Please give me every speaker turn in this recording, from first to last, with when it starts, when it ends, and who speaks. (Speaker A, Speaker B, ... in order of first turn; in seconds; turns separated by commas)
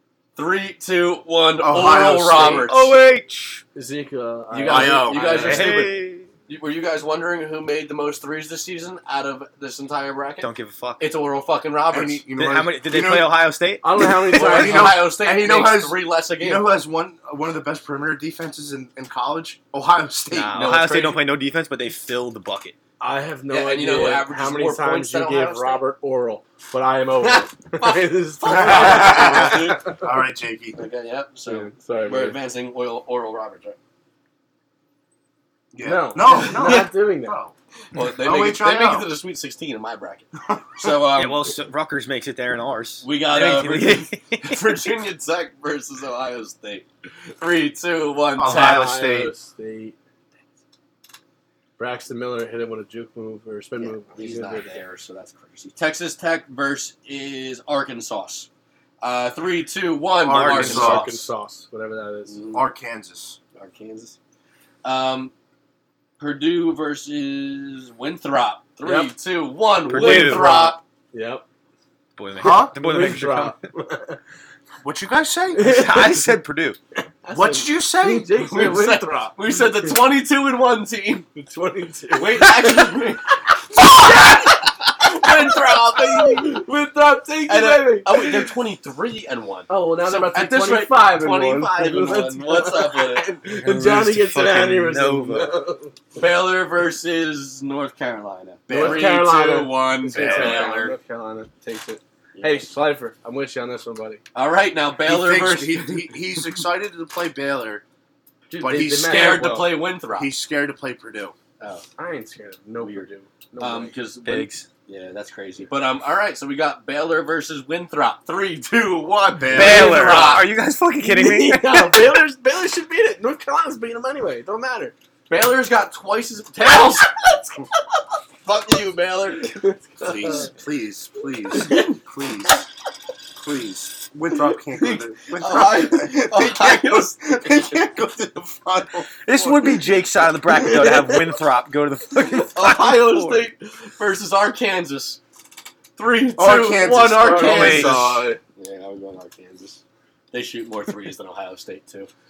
Speaker A: 0.3-2.9, Speaker B: 1.6-2.7, Speaker C: 2.6-3.6, Speaker D: 3.7-5.9, Speaker A: 4.5-12.2, Speaker B: 4.6-5.6, Speaker C: 5.3-6.3, Speaker C: 10.4-11.1, Speaker B: 11.9-13.4, Speaker C: 12.3-14.4, Speaker D: 13.8-15.0, Speaker B: 14.3-20.7, Speaker A: 14.3-16.8, Speaker C: 20.3-22.7, Speaker A: 20.5-21.2, Speaker D: 23.0-30.0, Speaker A: 23.5-25.8, Speaker A: 27.2-29.9, Speaker B: 28.4-30.8, Speaker A: 30.8-33.8, Speaker D: 31.4-32.4, Speaker B: 35.7-39.1, Speaker D: 35.8-37.4, Speaker A: 37.9-41.5, Speaker B: 40.5-40.9, Speaker C: 41.1-44.8, Speaker A: 43.0-46.9, Speaker A: 47.4-48.9, Speaker B: 48.4-49.3, Speaker D: 48.4-50.0, Speaker D: 51.8-54.8, Speaker A: 53.8-58.5, Speaker A: 59.0-61.0, Speaker B: 60.2-61.1, Speaker C: 60.3-61.2, Speaker D: 60.5-62.4, Speaker A: 62.3-62.6, Speaker B: 62.5-63.4, Speaker A: 63.5-64.2, Speaker A: 64.8-65.3, Speaker A: 66.2-70.8, Speaker D: 68.8-69.1, Speaker C: 69.9-70.5, Speaker D: 69.9-71.4, Speaker C: 72.2-73.7, Speaker B: 72.4-72.8, Speaker D: 72.4-74.2, Speaker B: 74.8-75.8, Speaker D: 75.6-76.2, Speaker C: 75.6-76.8, Speaker D: 77.2-79.9, Speaker B: 77.3-78.3, Speaker A: 78.3-81.3, Speaker D: 81.3-83.0, Speaker A: 82.1-86.6, Speaker D: 83.8-84.5, Speaker D: 85.2-88.4, Speaker A: 87.5-93.3, Speaker D: 89.7-96.0, Speaker C: 93.5-95.5, Speaker A: 96.1-100.9, Speaker B: 98.7-99.1, Speaker D: 98.7-104.2, Speaker B: 100.2-100.7, Speaker A: 102.3-102.7, Speaker A: 104.3-106.6, Speaker B: 105.0-107.8, Speaker D: 108.5-109.8, Speaker B: 108.6-111.3, Speaker A: 108.8-110.3, Speaker A: 111.6-111.8, Speaker D: 112.0-113.9, Speaker A: 113.6-120.5, Speaker C: 114.2-114.7, Speaker B: 119.4-120.4, Speaker C: 119.5-122.2, Speaker D: 121.0-124.9, Speaker A: 125.3-127.3, Speaker A: 128.4-129.8, Speaker B: 130.0-132.7, Speaker D: 130.0-130.4, Speaker B: 133.3-139.5, Speaker A: 134.8-137.4, Speaker C: 139.2-143.5, Speaker A: 142.4-145.2, Speaker A: 145.9-149.8, Speaker B: 146.3-148.3, Speaker D: 147.1-148.4, Speaker C: 147.4-147.9, Speaker A: 150.3-152.1